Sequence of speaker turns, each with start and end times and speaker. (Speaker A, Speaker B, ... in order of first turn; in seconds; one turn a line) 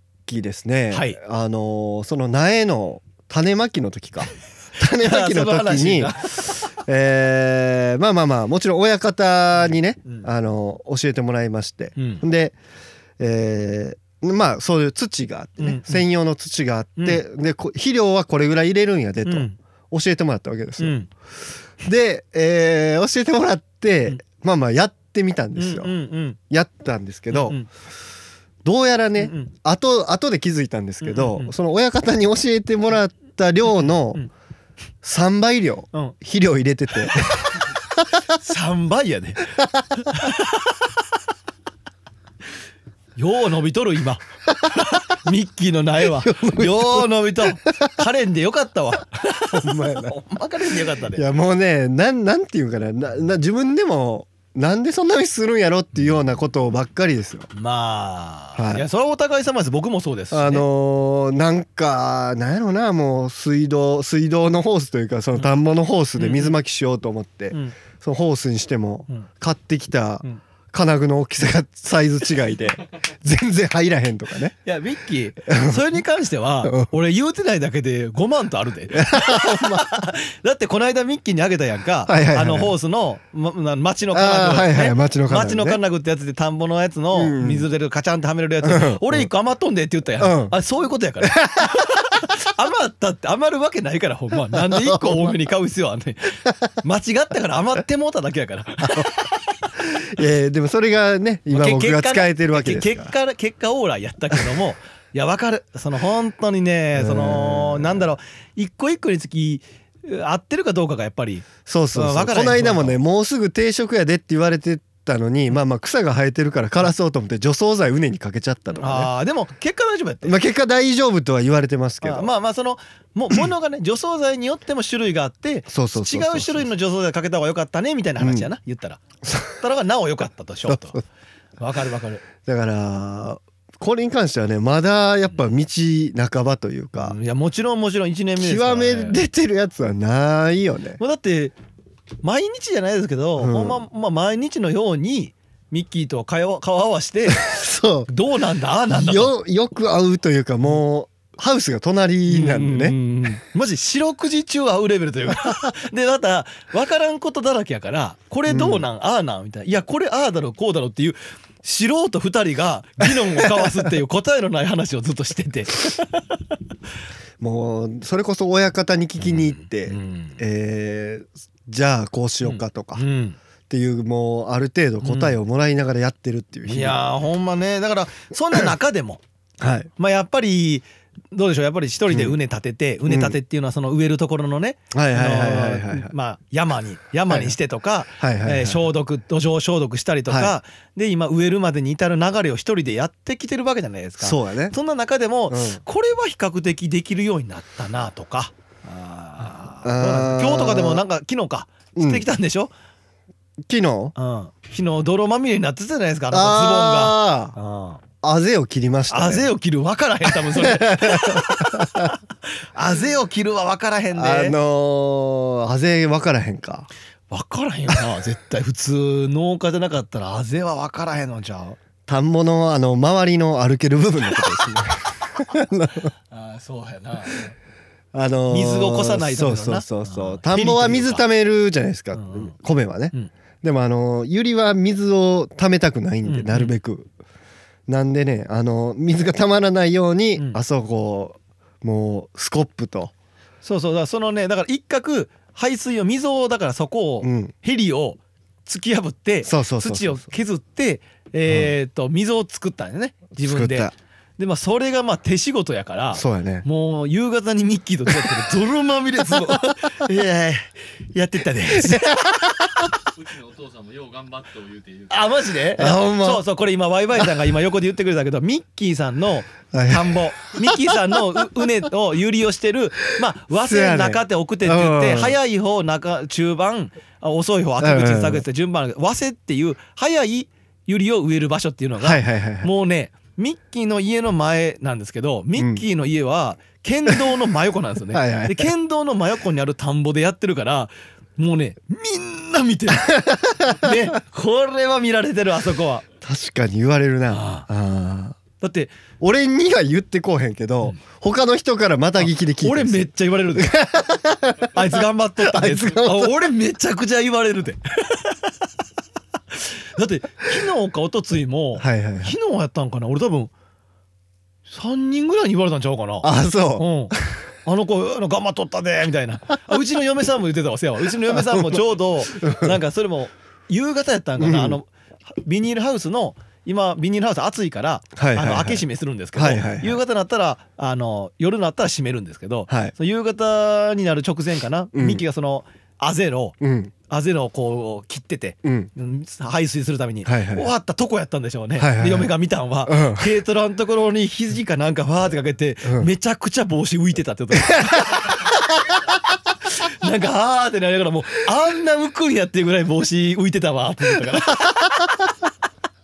Speaker A: 0.3-12.6
Speaker B: 0.9-1.2
Speaker B: 4.8-6.6
Speaker B: 11.9-12.2
Speaker A: 13.2-20.9
Speaker B: 15.6-16.0
Speaker B: 19.2-19.6
Speaker B: 20.8-21.1
Speaker A: 21.8-25.9
Speaker B: 25.6-26.4
Speaker A: 26.5-27.6
Speaker B: 27.3-27.7
Speaker A: 28.6-34.2
Speaker B: 29.2-29.5
Speaker B: 31.0-31.5
Speaker A: 35.0-38.0
Speaker B: 38.3-40.8
Speaker B: 43.2-51.2
Speaker A: 46.0-47.1
Speaker A: 49.5-50.1
Speaker A: 51.1-57.5
Speaker B: 57.5-60.6
Speaker A: 58.5-58.8
Speaker A: 60.3-74.5
Speaker B: 66.2-66.5
Speaker B: 74.6-99.5
Speaker A: 75.5-75.8
Speaker A: 76.6-76.9
Speaker A: 79.0-79.9
Speaker A: 82.1-82.7
Speaker A: 84.1-85.8
Speaker A: 87.1-87.7
Speaker A: 88.6-89.3
Speaker A: 90.2-90.5
Speaker A: 91.2-91.8
Speaker A: 94.5-95.3
Speaker A: 98.8-99.1
Speaker A: 99.8-103.1
Speaker B: 101.5-113.0
Speaker A: 106.9-108.0
Speaker A: 111.7-119.1
Speaker B: 118.8-120.4
Speaker A: 120.2-122.3
Speaker B: 122.0-129.0
Speaker A: 125.7-126.7
Speaker A: 128.2-128.5
Speaker A: 129.2-129.6
Speaker B: 129.6-131.0
Speaker A: 130.7-131.0
Speaker B: 131.6-132.2
Speaker A: 132.4-137.2
Speaker B: 137.0-139.2
Speaker A: 138.4-141.0
Speaker B: 141.0-141.5
Speaker B: 142.2-147.5
Speaker A: 143.4-143.8
Speaker A: 147.3-148.1
Speaker B: 148.1-149.3
Speaker A: 148.9-152.9
Speaker B: 152.3-166.2
Speaker A: 158.5-158.8
Speaker A: 163.2-163.8
Speaker A: 167.4-173.0
Speaker B: 169.2-170.4
Speaker B: 172.4-173.4
Speaker A: 173.7-177.0
Speaker B: 175.0-175.3
Speaker B: 176.7-179.2
Speaker A: 179.6-179.9
Speaker B: 180.0-202.7
Speaker A: 182.1-182.3
Speaker A: 183.1-183.4
Speaker A: 184.9-186.1
Speaker A: 187.3-187.6
Speaker A: 188.2-188.8
Speaker A: 194.2-194.7
Speaker A: 195.5-195.8
Speaker A: 199.8-201.0
Speaker A: 201.9-202.2
Speaker A: 203.7-204.1
Speaker B: 204.2-208.0
Speaker A: 206.3-207.6
Speaker A: 208.2-209.5
Speaker B: 209.1-212.2
Speaker A: 210.3-212.1
Speaker B: 212.7-214.6
Speaker A: 214.1-216.9
Speaker B: 217.3-221.8
Speaker A: 222.1-226.1
Speaker B: 226.3-227.5
Speaker A: 228.1-237.1
Speaker B: 228.5-231.2
Speaker B: 232.1-232.5
Speaker B: 236.2-236.7
Speaker A: 237.9-243.1
Speaker B: 243.6-260.6
Speaker A: 247.2-247.5
Speaker A: 249.4-250.3
Speaker A: 253.4-253.9
Speaker A: 256.1-256.6
Speaker A: 259.4-260.6
Speaker B: 261.1-262.5
Speaker A: 261.7-262.9
Speaker C: 263.1-265.3
Speaker B: 265.1-296.0
Speaker A: 265.8-266.4
Speaker A: 269.7-271.2
Speaker A: 273.5-275.4
Speaker A: 277.8-278.4
Speaker A: 282.0-282.7
Speaker A: 285.6-285.8
Speaker A: 288.1-288.7
Speaker A: 292.9-294.0
Speaker A: 296.2-298.4
Speaker B: 297.3-297.7
Speaker B: 298.6-298.9
Speaker A: 299.2-306.5
Speaker B: 302.2-303.7
Speaker B: 304.7-308.4
Speaker B: 309.5-313.5
Speaker A: 311.8-312.3
Speaker B: 314.7-317.1
Speaker A: 316.2-317.3
Speaker B: 317.6-336.6
Speaker A: 321.3-322.8
Speaker A: 324.4-324.8
Speaker A: 328.1-330.0
Speaker A: 332.7-332.9
Speaker A: 334.9-335.2
Speaker A: 336.6-336.9
Speaker B: 337.1-348.5
Speaker A: 338.6-338.9
Speaker A: 340.2-340.7
Speaker A: 341.8-342.3
Speaker A: 342.9-343.3
Speaker A: 345.8-346.1
Speaker A: 347.6-348.5
Speaker B: 349.7-355.0